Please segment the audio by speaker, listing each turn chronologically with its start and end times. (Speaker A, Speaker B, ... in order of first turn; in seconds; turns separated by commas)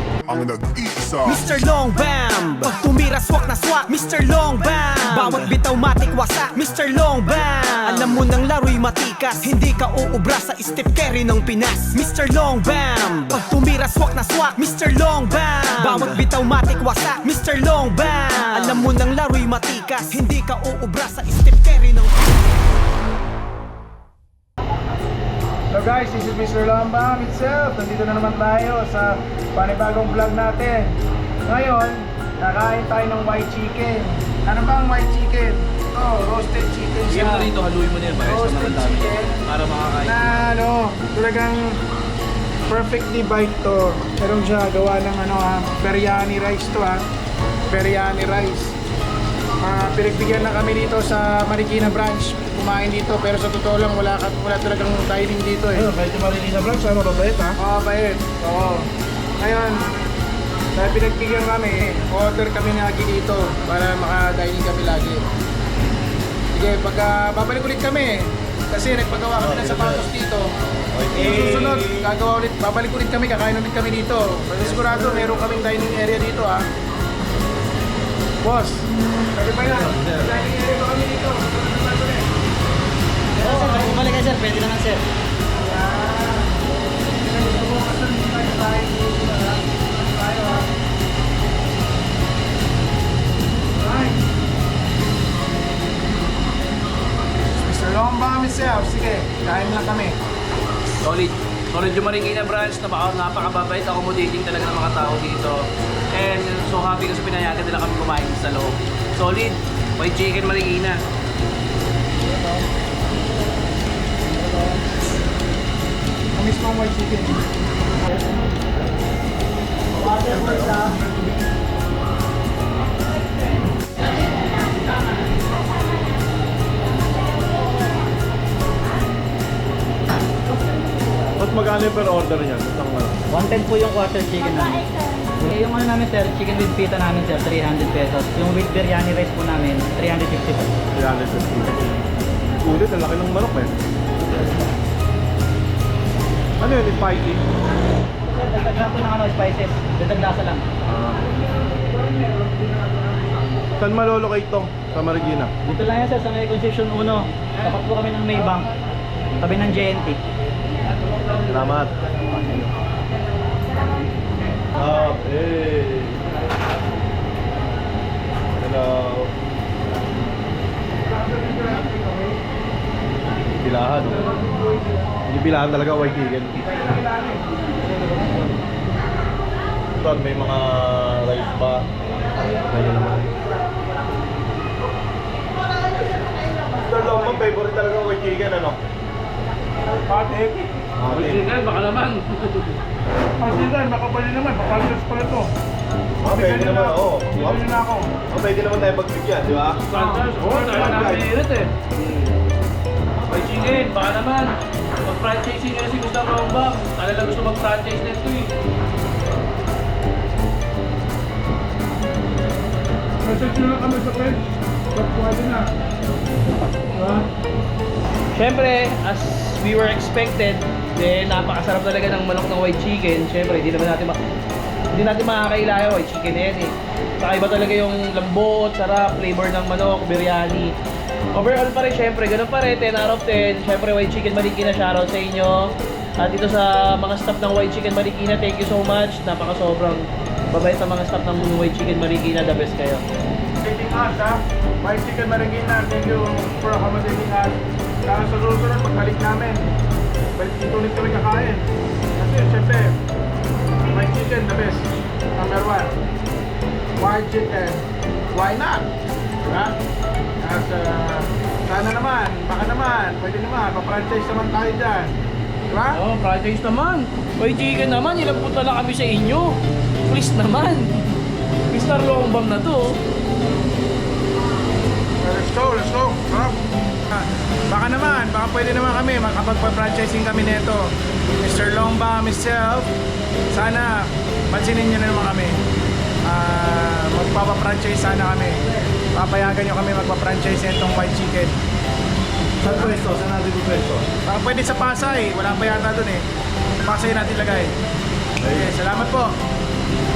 Speaker A: 0.3-22.2, Speaker B: 25.7-30.9, Speaker B: 31.4-37.5, Speaker C: 37.1-40.4, Speaker B: 38.1-39.4, Speaker B: 40.0-41.8, Speaker B: 42.7-47.0, Speaker B: 47.7-48.8, Speaker B: 49.6-55.9, Speaker C: 55.7-57.6, Speaker B: 57.6-58.9, Speaker B: 59.4-59.8, Speaker B: 60.8-65.2, Speaker B: 66.5-70.5, Speaker D: 69.4-70.1, Speaker D: 70.9-72.1, Speaker B: 71.1-76.6, Speaker B: 78.4-82.3, Speaker D: 79.7-80.3, Speaker E: 83.4-85.0, Speaker B: 83.4-83.9, Speaker B: 85.6-86.6, Speaker B: 87.2-90.7, Speaker B: 93.8-94.2, Speaker B: 97.6-100.2, Speaker C: 101.0-105.6, Speaker C: 106.1-111.0, Speaker B: 116.3-117.4, Speaker E: 120.0-120.8, Speaker D: 131.4-133.2, Speaker E: 133.3-134.9, Speaker E: 135.4-140.7, Speaker D: 140.9-141.9, Speaker D: 142.6-143.8, Speaker D: 146.6-147.4, Speaker E: 148.3-150.6, Speaker D: 150.8-151.3, Speaker B: 152.1-152.8, Speaker D: 153.8-155.5, Speaker E: 155.7-158.7, Speaker E: 159.4-160.2, Speaker D: 161.4-162.7, Speaker D: 164.7-166.2, Speaker D: 168.6-169.3, Speaker B: 171.2-172.1, Speaker D: 173.6-174.3, Speaker D: 175.3-176.7, Speaker B: 176.7-177.4, Speaker D: 180.0-181.9, Speaker D: 182.6-183.4, Speaker D: 186.8-188.8, Speaker B: 190.1-190.4, Speaker C: 190.2-192.8, Speaker D: 191.0-191.4, Speaker B: 193.4-195.5, Speaker D: 196.2-197.7, Speaker B: 196.2-198.1, Speaker D: 198.3-199.8, Speaker C: 199.9-202.3, Speaker B: 199.9-201.2, Speaker D: 200.8-201.3, Speaker C: 203.3-204.5, Speaker C: 205.1-208.5, Speaker B: 213.2-215.7, Speaker B: 216.9-217.2, Speaker C: 218.3-224.2, Speaker C: 224.9-230.7, Speaker C: 231.3-243.0, Speaker B: 243.6-249.7, Speaker B: 250.4-253.0, Speaker B: 253.9-255.9, Speaker B: 257.0-258.9, Speaker B: 259.4-259.8, Speaker B: 260.4-265.1, Speaker B: 265.7-266.0, Speaker C: 265.9-270.9, Speaker C: 271.7-272.9, Speaker B: 275.2-282.9, Speaker B: 283.5-285.6, Speaker B: 286.2-288.6, Speaker B: 289.1-291.6, Speaker D: 292.6-294.1, Speaker B: 292.7-293.0, Speaker B: 294.2-296.2, Speaker B: 296.8-297.8, Speaker D: 298.4-298.7, Speaker B: 298.4-299.4